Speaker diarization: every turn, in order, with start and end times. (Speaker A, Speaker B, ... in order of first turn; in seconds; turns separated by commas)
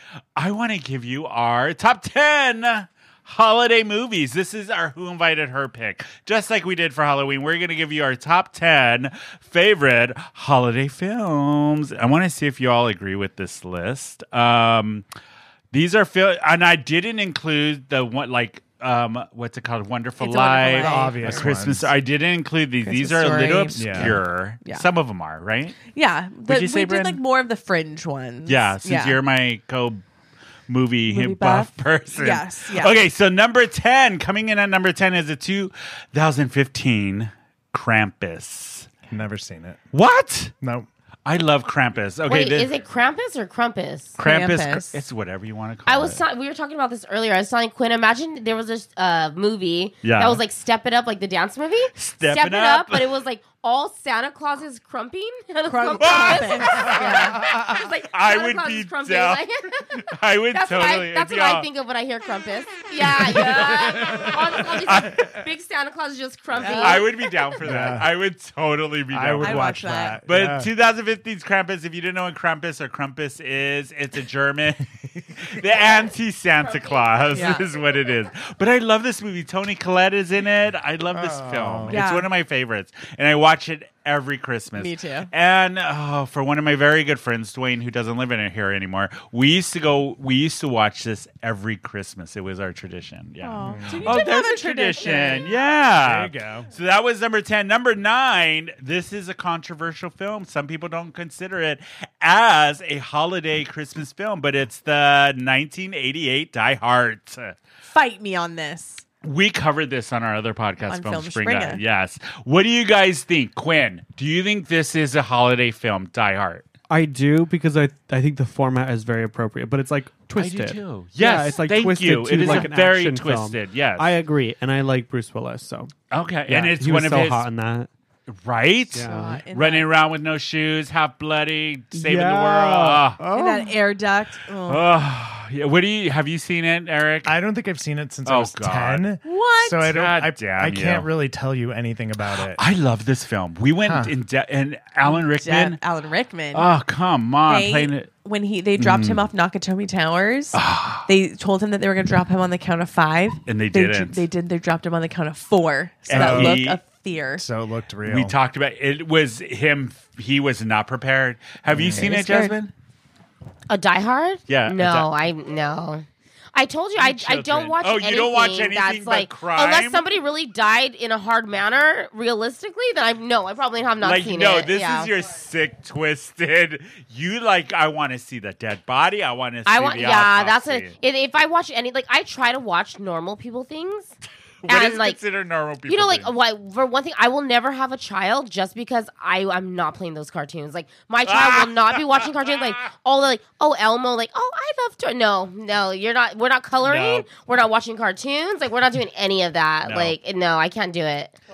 Speaker A: 0.3-15.1, Speaker A: 15.7-25.8, Speaker B: 20.2-21.5, Speaker C: 20.7-21.9, Speaker B: 22.8-24.9, Speaker C: 23.7-24.2, Speaker B: 25.9-29.2, Speaker A: 26.4-27.2, Speaker A: 28.4-30.0, Speaker A: 30.7-38.9, Speaker B: 31.1-33.0, Speaker C: 39.1-39.8, Speaker A: 39.9-40.5, Speaker C: 40.6-40.9, Speaker A: 41.2-42.8, Speaker D: 42.2-44.2, Speaker A: 44.2-46.2, Speaker B: 44.2-45.0, Speaker D: 45.9-59.9, Speaker A: 50.0-50.4, Speaker A: 51.9-53.2, Speaker B: 55.6-57.3, Speaker A: 56.0-61.7, Speaker D: 60.5-67.5, Speaker A: 63.0-65.4, Speaker B: 66.6-67.1, Speaker A: 66.6-107.5, Speaker C: 67.6-68.1, Speaker C: 69.1-70.7, Speaker B: 69.4-70.2, Speaker D: 76.6-77.8, Speaker B: 77.3-77.7, Speaker C: 81.1-82.0, Speaker B: 81.9-82.3, Speaker B: 84.7-85.3, Speaker B: 93.4-95.5, Speaker C: 93.6-94.0, Speaker D: 94.9-95.7, Speaker C: 95.9-96.7, Speaker B: 107.9-109.0, Speaker A: 109.2-116.7, Speaker B: 110.9-111.8, Speaker E: 116.9-125.9, Speaker A: 120.3-124.2, Speaker A: 126.1-127.5, Speaker E: 126.5-127.9, Speaker A: 128.3-133.2, Speaker E: 128.9-129.4, Speaker B: 128.9-129.9, Speaker E: 131.9-133.7, Speaker B: 133.3-134.9, Speaker A: 134.6-137.4, Speaker C: 137.2-142.6, Speaker A: 138.2-139.1, Speaker B: 139.2-139.9, Speaker A: 139.8-141.1, Speaker A: 142.2-145.8, Speaker C: 143.8-144.1, Speaker B: 145.0-146.7, Speaker A: 146.5-148.1, Speaker B: 147.4-157.4, Speaker A: 148.8-149.2, Speaker A: 150.5-151.1, Speaker A: 153.5-154.2, Speaker A: 156.1-156.8, Speaker C: 156.1-156.6, Speaker C: 157.4-158.3, Speaker A: 158.0-162.7, Speaker C: 161.7-162.1, Speaker B: 161.9-162.6, Speaker D: 163.7-175.1, Speaker A: 164.5-165.1, Speaker A: 167.0-170.0, Speaker A: 174.0-181.0, Speaker D: 179.7-184.1, Speaker A: 184.6-186.3, Speaker D: 184.7-185.2, Speaker D: 185.9-201.4, Speaker A: 191.2-192.7, Speaker A: 196.8-197.2, Speaker A: 199.8-200.1